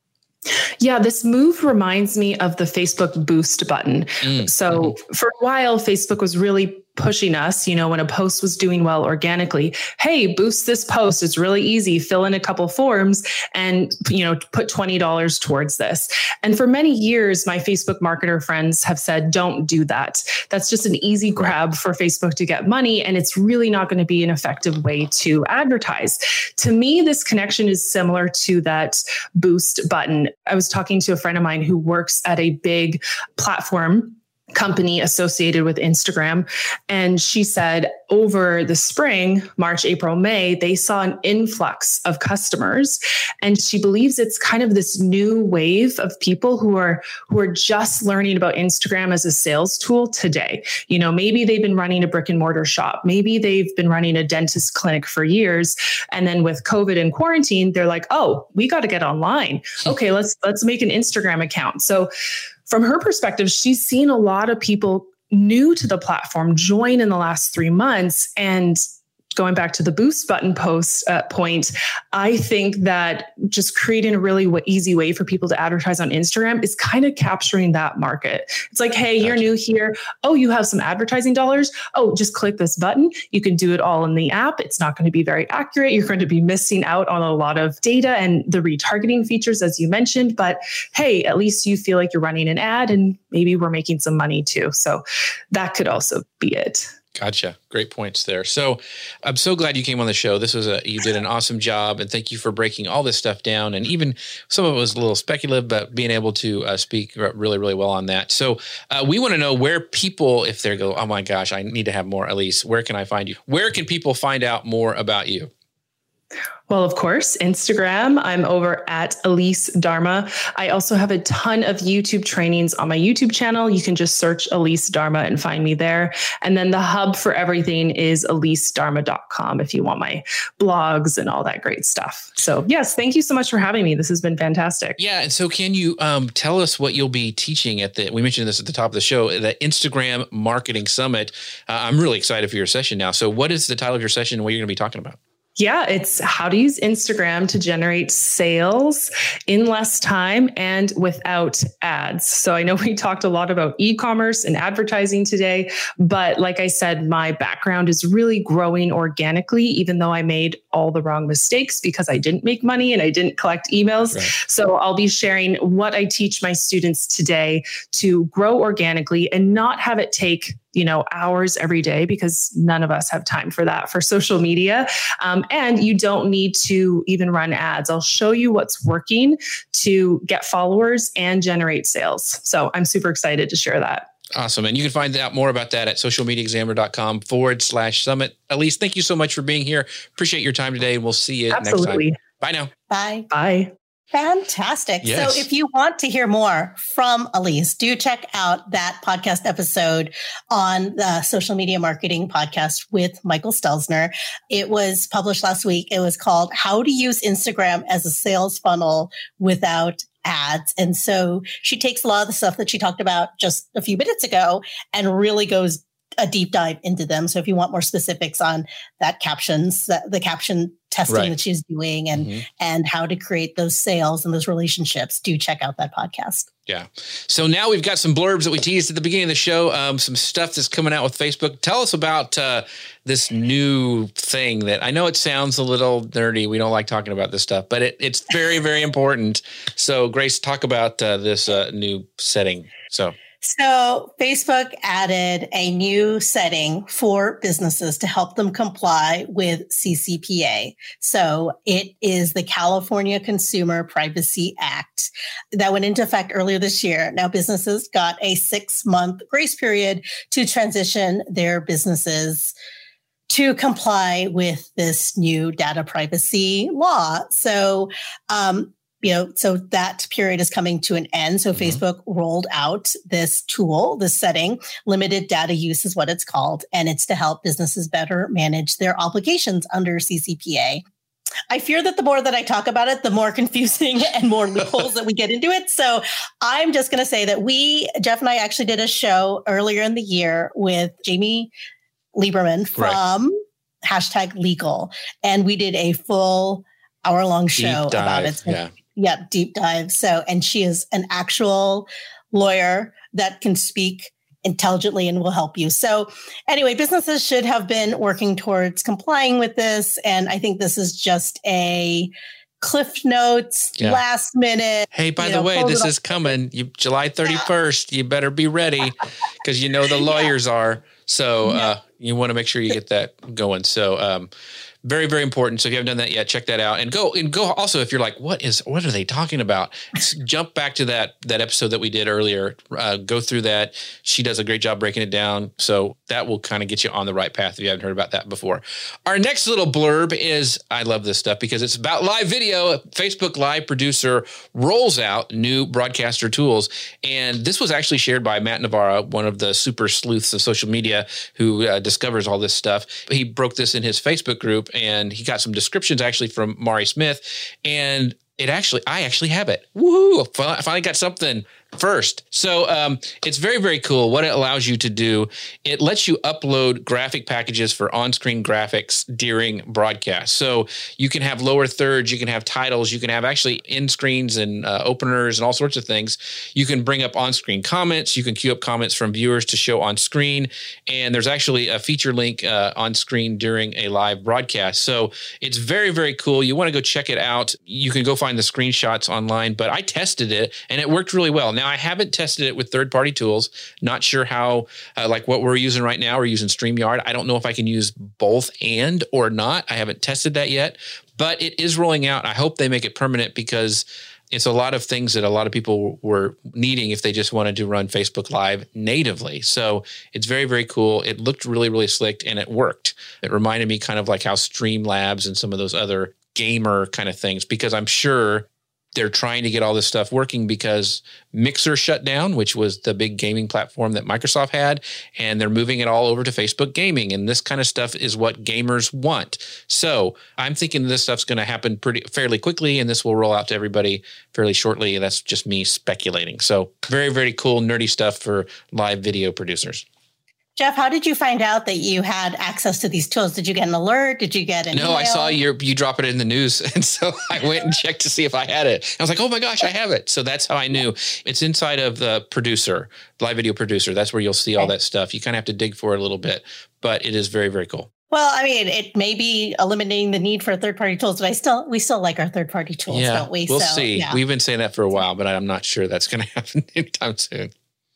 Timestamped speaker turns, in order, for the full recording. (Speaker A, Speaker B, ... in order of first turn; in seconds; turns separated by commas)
Speaker A: 0.8-62.1, Speaker B: 4.2-4.9, Speaker A: 62.7-68.8, Speaker A: 69.3-96.9, Speaker B: 97.1-115.5, Speaker A: 116.7-135.0, Speaker B: 135.0-145.2, Speaker A: 145.6-184.1, Speaker B: 184.3-192.7, Speaker A: 191.5-192.2, Speaker C: 192.9-193.3, Speaker A: 193.3-193.7, Speaker C: 194.1-226.5, Speaker B: 195.0-195.4, Speaker B: 222.2-222.4, Speaker B: 226.7-243.2, Speaker C: 243.4-262.5, Speaker C: 263.3-280.8, Speaker C: 281.5-291.5, Speaker C: 292.1-315.9, Speaker B: 297.6-298.7, Speaker B: 314.9-324.3, Speaker B: 324.8-439.8, Speaker C: 440.6-445.4, Speaker B: 444.7-457.9, Speaker C: 458.1-464.2, Speaker B: 462.9-467.5